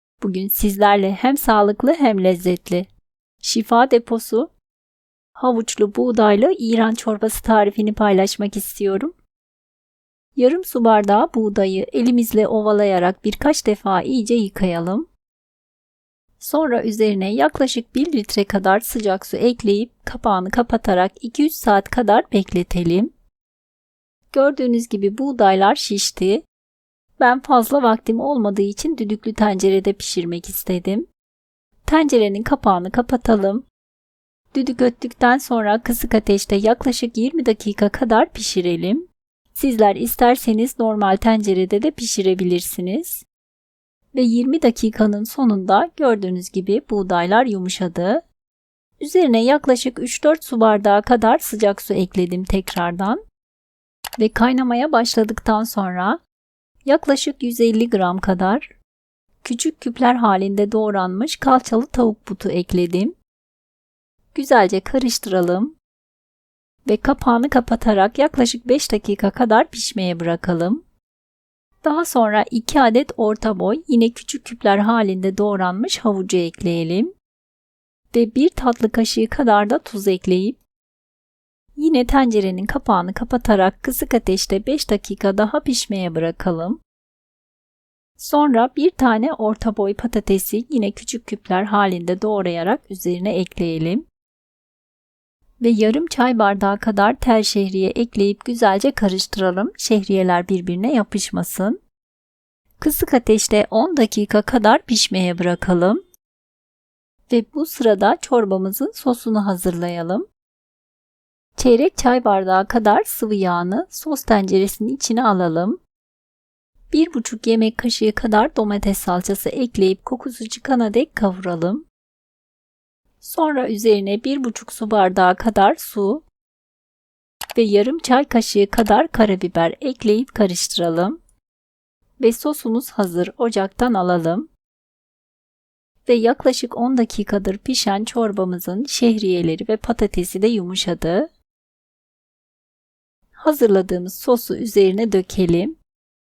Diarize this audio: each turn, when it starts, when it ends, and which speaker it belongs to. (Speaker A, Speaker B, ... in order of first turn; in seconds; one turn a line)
Speaker A: 0.2-2.9
Speaker A: 3.4-4.5
Speaker A: 5.4-9.1
Speaker A: 10.4-15.1
Speaker A: 16.4-23.1
Speaker A: 24.3-26.4
Speaker A: 27.2-31.1
Speaker A: 31.8-33.6
Speaker A: 34.5-43.2
Speaker A: 44.1-48.2
Speaker A: 49.0-53.2
Speaker A: 54.2-56.2
Speaker A: 56.8-58.7
Speaker A: 59.4-63.1
Speaker A: 64.3-65.8
Speaker A: 66.9-70.8
Speaker A: 71.8-77.1
Speaker A: 78.1-80.6
Speaker A: 81.8-86.8
Speaker A: 88.2-94.1
Speaker A: 95.6-101.8
Speaker A: 102.8-106.0
Speaker A: 107.3-110.2
Speaker A: 111.6-115.8
Speaker A: 116.9-121.9
Speaker A: 123.2-126.2
Speaker A: 127.5-131.2
Speaker A: 132.2-134.5
Speaker A: 136.1-141.3
Speaker A: 143.3-145.7